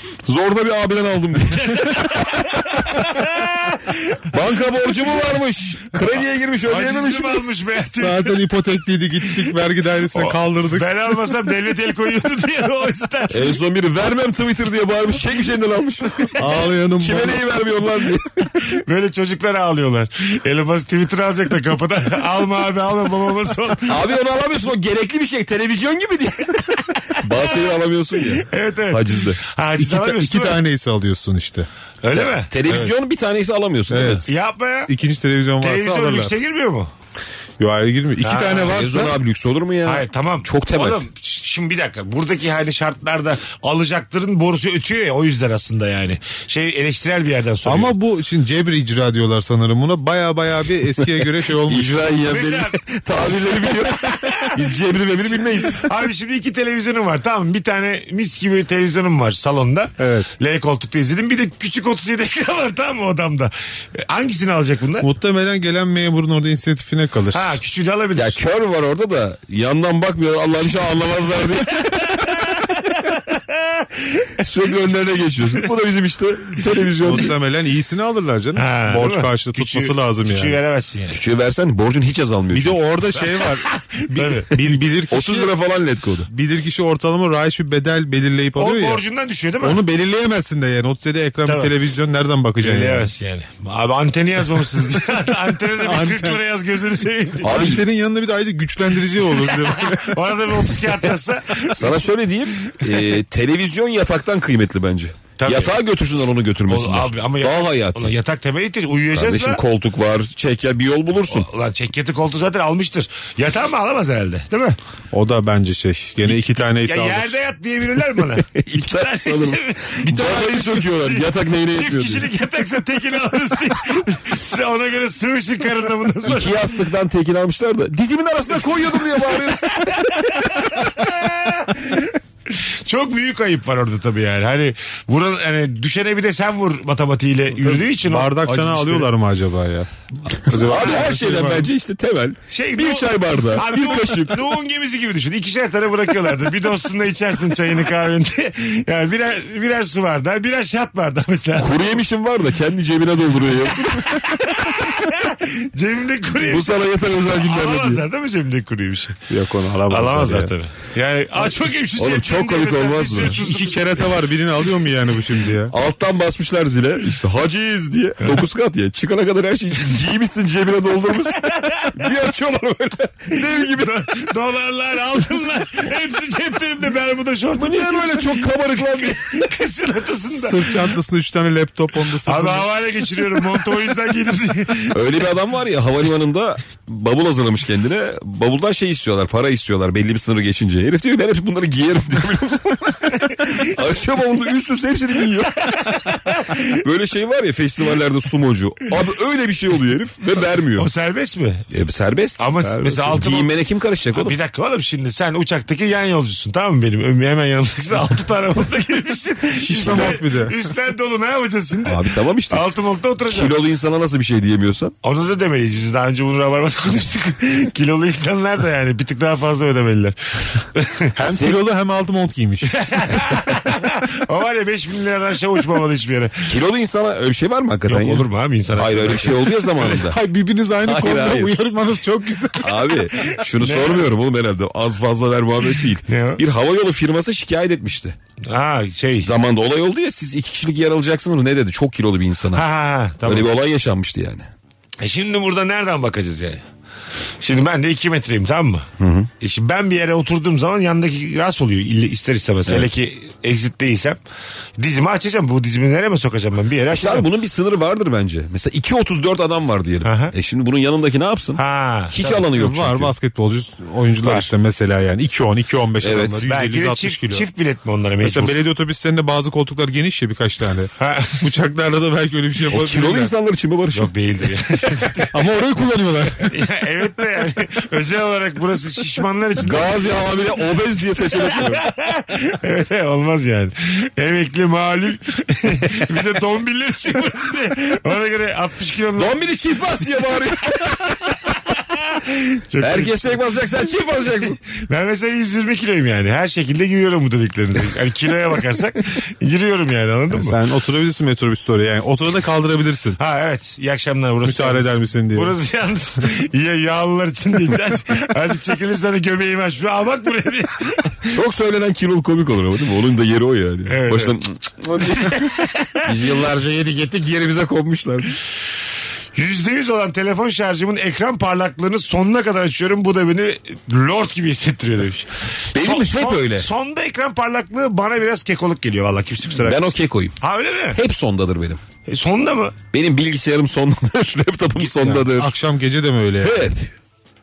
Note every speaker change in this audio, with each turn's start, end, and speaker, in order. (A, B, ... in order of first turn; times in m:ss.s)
0:00.3-0:01.9 A
0:01.5-0:04.4 B
0:04.3-0:07.5 A
0:06.0-0:08.4 B
0:08.0-0:10.9 C
0:10.1-0:13.6 B
0:13.3-0:16.3 A
0:16.4-0:17.4 C
0:17.0-0:18.5 A
0:18.7-0:24.0 B
0:23.9-0:26.6 A
0:27.2-0:29.4 A
0:28.3-0:30.6 B
0:29.8-0:31.7 C
0:32.0-0:32.5 B
0:32.1-0:34.2 A
0:32.7-0:32.9 C
0:33.9-0:34.3 C
0:34.3-0:34.9 B
0:34.9-0:36.3 C
0:35.6-0:36.9 B
0:37.6-0:39.1 C
0:38.2-0:38.8 B
0:38.6-0:41.0 A
0:39.8-0:47.9 B
0:47.6-0:52.1 C
0:51.0-0:55.9 A
0:52.2-0:54.6 B
0:55.3-1:05.1 B
1:00.0-1:00.3 C
1:05.0-1:07.6 C
1:07.3-1:08.4 B
1:08.2-1:12.2 A
1:12.2-1:14.3 B
1:14.4-1:17.3 A
1:17.0-1:20.6 C
1:18.6-1:21.2 B
1:21.1-1:22.8 A
1:22.5-1:25.5 C
1:23.2-1:24.6 B
1:25.1-1:26.3 A
1:26.3-1:29.0 C
1:28.6-1:29.8 B
1:29.6-1:33.1 C
1:31.5-1:31.7 B
1:32.6-1:37.8 B
1:35.8-1:36.4 C
1:37.4-1:37.8 A
1:37.5-1:40.2 C
1:39.2-1:42.0 B
1:41.8-1:48.2 A
1:45.4-1:45.8 B
1:46.7-1:49.6 B
1:49.1-1:51.5 A
1:51.3-1:54.8 B
1:55.1-1:57.4 C
1:56.2-2:06.8 B
1:58.5-2:02.3 A
2:06.2-2:10.1 A
2:08.9-2:19.1 B
2:17.6-2:21.7 C
2:20.5-2:24.5 A
2:20.7-2:21.1 B
2:22.5-2:32.0 B
2:31.6-2:34.2 A
2:34.5-2:39.2 B
2:36.4-2:38.0 A
2:39.3-2:40.5 C
2:39.9-2:44.2 B
2:42.0-2:43.4 A
2:43.4-2:45.7 C
2:45.7-2:54.1 A
2:51.4-2:51.9 B
2:53.6-3:00.9 B
2:57.6-2:59.3 A
3:00.3-3:02.7 C
3:02.2-3:05.0 B
3:04.9-3:15.9 A
3:15.7-3:16.7 B
3:16.8-3:20.9 A
3:20.8-3:21.7 B
3:21.7-3:24.4 A
3:22.4-3:23.5 B
3:24.1-3:33.6 B
3:29.6-3:30.6 C
3:29.8-3:30.2 A
3:31.8-3:32.6 A
3:33.3-3:35.0 A
3:35.0-3:41.1 B
3:41.2-3:42.7 C
3:41.3-3:41.6 A
3:42.7-3:46.5 B
3:46.5-3:50.2 A
3:47.9-3:50.0 B
3:49.9-3:53.1 C
3:50.8-3:51.6 A
3:52.6-3:58.2 A
3:53.6-3:54.1 B
3:56.1-3:56.4 B
3:58.5-3:59.3 B
3:59.2-4:02.6 A
4:02.5-4:03.5 B
4:03.2-4:04.5 A
4:05.0-4:06.6 B
4:07.4-4:08.9 B
4:09.0-4:09.3 A
4:09.4-4:14.2 B
4:12.7-4:12.9 A
4:14.8-4:17.3 B
4:16.9-4:23.1 A
4:20.0-4:20.3 B
4:21.6-4:22.4 B
4:22.5-4:27.5 C
4:24.2-4:24.5 B
4:26.0-4:26.4 A
4:26.5-4:28.6 B
4:28.2-4:33.3 C
4:31.0-4:31.4 B
4:32.7-4:34.1 A
4:33.9-4:35.3 B
4:35.3-4:36.5 C
4:36.5-4:40.1 B
4:39.6-4:41.9 A
4:41.5-4:49.4 B
4:49.2-4:51.0 A
4:52.1-4:53.6 B
4:52.8-4:54.6 A
4:54.8-5:00.6 B
5:00.3-5:03.2 C
5:03.2-5:11.3 B
5:04.4-5:05.6 C
5:11.3-5:15.5 A
5:13.9-5:14.4 B
5:15.1-5:16.1 B
5:16.0-5:18.3 A
5:19.4-5:31.0 B
5:25.7-5:26.7 A
5:29.6-5:30.4 A
5:30.9-5:31.8 A
5:32.1-5:32.8 B
5:32.9-5:35.5 A
5:34.8-5:36.6 C
5:36.4-5:36.9 A